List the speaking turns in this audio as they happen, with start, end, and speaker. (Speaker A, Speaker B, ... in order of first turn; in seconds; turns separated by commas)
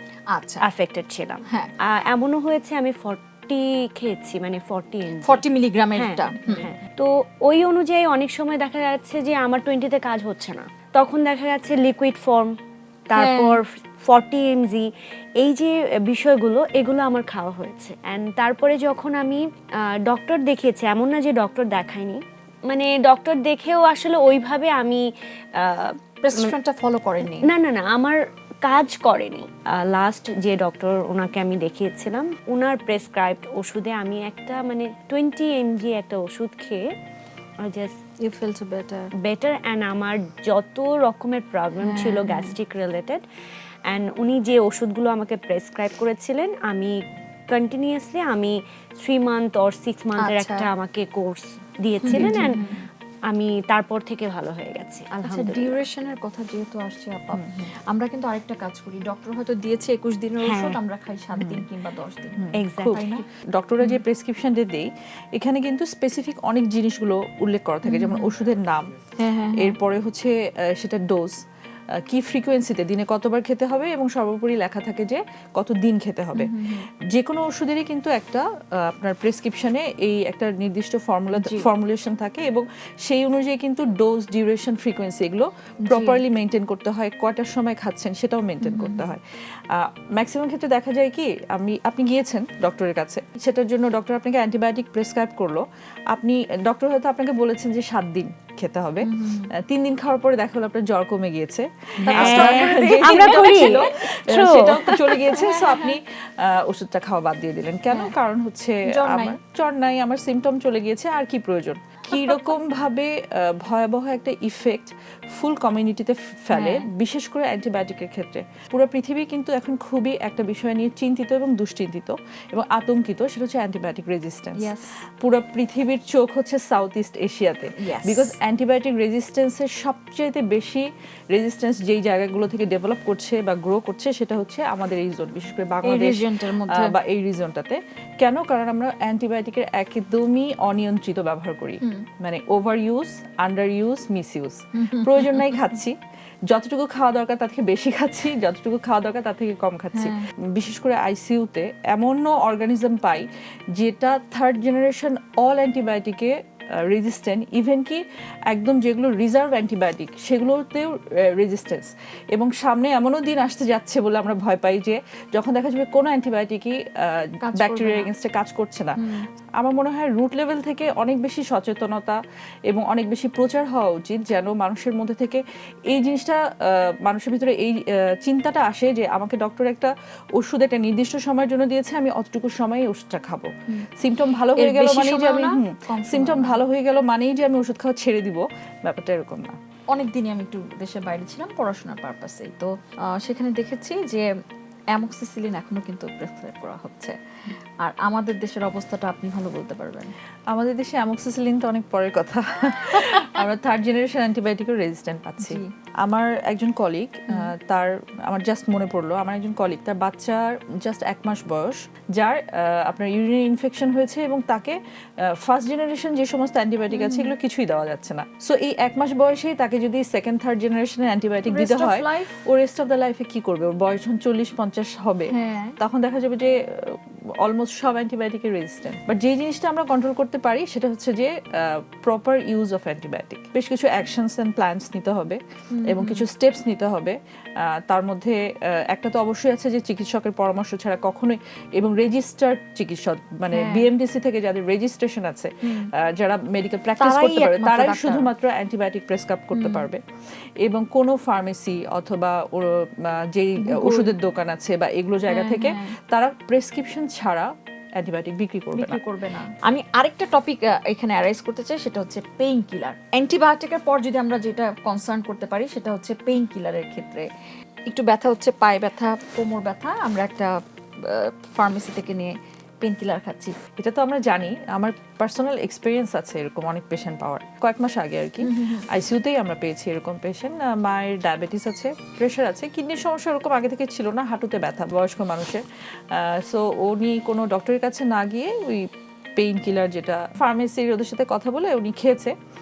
Speaker A: 0.3-0.6, Speaker B: 0.6-5.4, Speaker A: 5.2-6.7, Speaker B: 6.0-12.6, Speaker B: 13.1-26.5, Speaker A: 13.2-13.6, Speaker A: 26.2-27.5, Speaker B: 27.3-36.9, Speaker B: 37.6-38.0, Speaker A: 38.2-39.1, Speaker B: 39.2-43.2, Speaker A: 41.8-42.5, Speaker B: 43.9-52.7, Speaker A: 50.2-50.7, Speaker A: 52.0-52.9, Speaker C: 52.1-52.6, Speaker B: 53.3-55.8, Speaker A: 55.2-63.2, Speaker C: 57.3-57.6, Speaker B: 60.4-60.8, Speaker C: 61.4-61.7, Speaker C: 62.4-68.9, Speaker B: 62.5-63.0, Speaker A: 67.8-68.3, Speaker A: 69.2-69.8, Speaker C: 69.5-71.4, Speaker C: 72.0-146.0, Speaker A: 76.3-76.9, Speaker A: 81.3-81.7, Speaker A: 85.9-86.2, Speaker A: 88.6-89.1, Speaker A: 99.0-99.5, Speaker A: 102.0-103.9, Speaker B: 102.1-105.2, Speaker A: 105.3-106.0, Speaker A: 108.8-109.4, Speaker A: 116.5-116.9, Speaker A: 124.6-125.0, Speaker A: 127.8-128.3, Speaker A: 135.8-136.9, Speaker A: 144.8-145.5, Speaker C: 146.5-169.0, Speaker A: 149.9-150.2, Speaker A: 167.4-168.1, Speaker A: 169.0-169.2, Speaker C: 169.6-189.6, Speaker A: 184.6-186.6, Speaker A: 189.9-194.3, Speaker A: 194.9-200.1, Speaker C: 200.5-250.0, Speaker A: 203.0-203.3, Speaker A: 205.4-205.7, Speaker A: 216.9-217.3, Speaker A: 221.5-222.4, Speaker A: 225.3-225.8, Speaker A: 235.7-236.2, Speaker A: 243.5-243.9, Speaker A: 245.6-245.9, Speaker A: 247.0-248.3, Speaker A: 249.5-249.9, Speaker C: 250.6-259.0, Speaker A: 253.6-254.1, Speaker A: 255.3-255.9, Speaker A: 258.7-267.3, Speaker A: 267.9-273.6, Speaker C: 273.8-292.3, Speaker A: 278.4-278.9